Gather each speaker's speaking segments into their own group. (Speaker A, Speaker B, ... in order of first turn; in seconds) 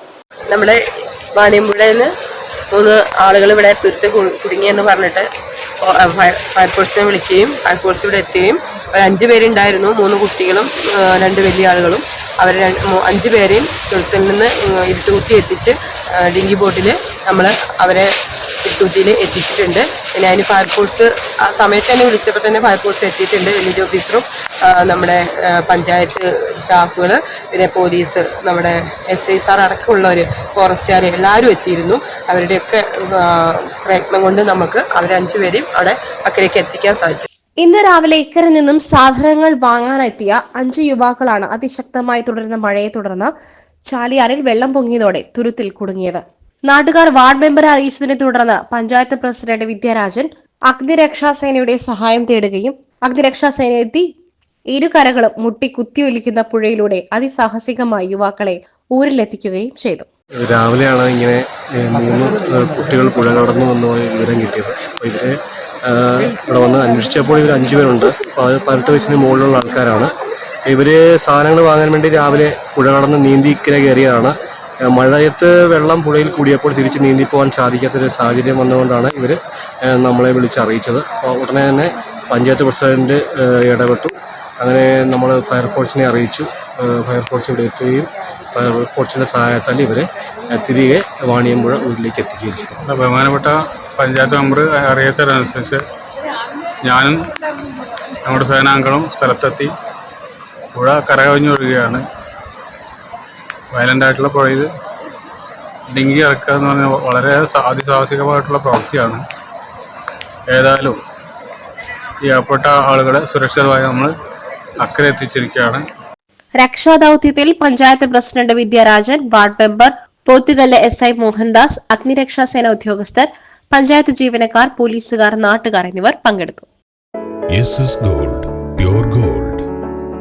Speaker A: 0.5-0.8, 1.3-2.1, 2.7-5.3, 5.8-18.1, 18.6-37.3
Speaker B: 37.6-43.3, 43.9-54.0, 54.7-60.1, 116.6-126.7
Speaker C: 60.4-65.3, 65.8-70.1, 70.7-92.7
Speaker D: 92.8-95.8, 96.8-97.2, 98.2-99.7, 100.7-102.0, 103.7-104.7, 105.9-109.2, 110.5-111.0, 112.2-114.1, 114.8-115.8
Speaker E: 127.5-129.6